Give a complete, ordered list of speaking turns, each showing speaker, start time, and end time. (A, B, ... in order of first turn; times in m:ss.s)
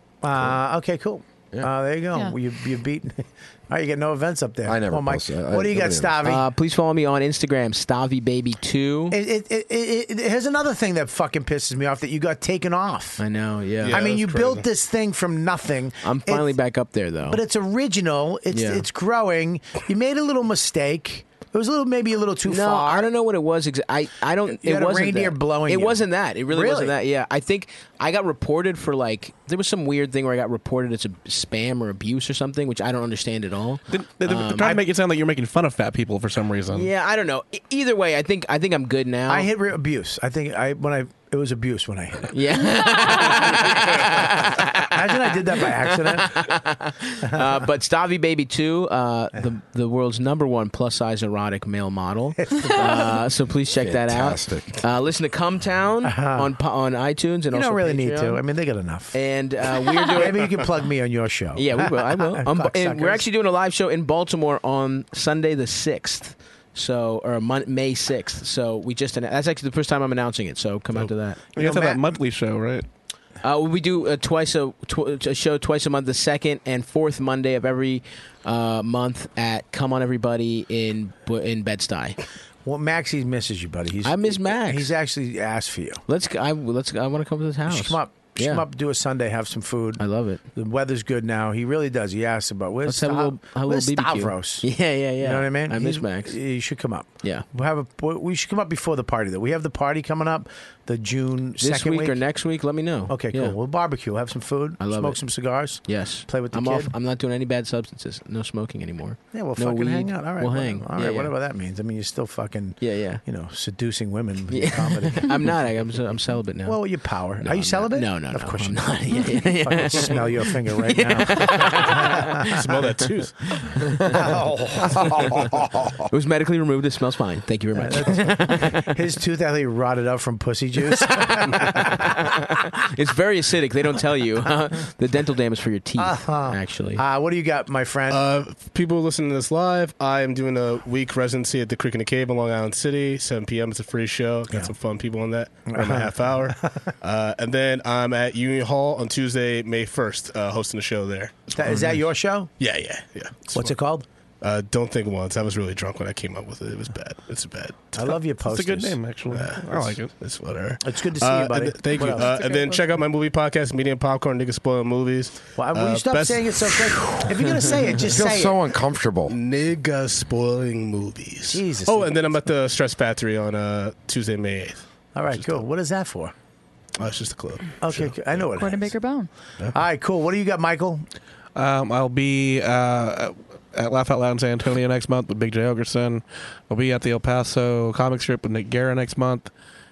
0:00.2-0:06.4 A
0:04.6-0:06.2 B
0:06.2-0:09.2 C
0:09.1-0:13.2 A
0:13.2-0:14.0 C
0:13.8-0:14.6 D
0:13.9-0:16.5 A
0:16.0-0:17.4 C
0:17.3-0:23.1 A
0:18.5-0:18.8 C
0:22.4-0:34.8 C
0:24.5-0:26.9 A
0:33.9-0:36.9 E
0:36.7-0:39.5 C
0:39.3-0:42.3 A
0:42.3-0:58.4 C
0:42.8-0:43.5 F
0:44.9-0:46.5 A
0:47.3-0:47.6 A
0:52.4-0:53.1 A
0:53.8-0:54.8 B
0:56.0-0:56.5 A
0:57.5-0:59.2 A
0:59.1-1:00.6 C
1:00.1-1:03.2 A
1:01.6-1:11.4 C
1:11.5-1:12.8 E
1:11.6-1:12.0 A
1:13.4-1:22.2 C
1:22.6-1:26.0 A
1:24.0-1:24.9 C
1:26.0-1:28.6 C
1:27.7-1:34.7 A
1:30.0-1:30.4 C
1:32.8-1:36.4 C
1:35.2-1:42.2 A
1:41.6-1:43.5 C
1:43.1-1:46.9 A
1:44.8-1:45.2 C
1:45.8-1:51.3 C
1:49.3-1:55.3 A
1:52.8-1:53.2 C
1:54.5-1:56.8 C
1:56.6-2:02.3 A
1:57.4-2:02.5 C
2:02.5-2:03.3 D
2:03.5-2:04.2 C
2:04.0-2:05.6 A
2:06.1-2:08.9 C
2:07.8-2:12.2 A
2:11.2-2:17.0 C
2:16.0-2:18.2 A
2:18.1-2:32.0 D
2:25.7-2:26.9 A
2:31.5-2:32.6 A
2:32.6-2:33.8 D
2:33.5-2:34.0 A
2:34.4-2:38.0 D
2:37.9-2:39.0 A
2:38.4-2:40.2 E
2:39.3-2:47.8 D
2:40.8-2:42.3 A
2:42.1-2:42.9 F
2:45.6-2:48.6 A
2:48.1-2:49.3 B
2:49.3-2:55.6 D
2:51.5-2:52.2 A
2:55.1-2:56.3 A
2:57.0-2:58.4 D
2:57.8-2:58.9 A
2:58.5-2:59.3 F
2:59.7-3:01.0 A
3:01.5-3:09.5 E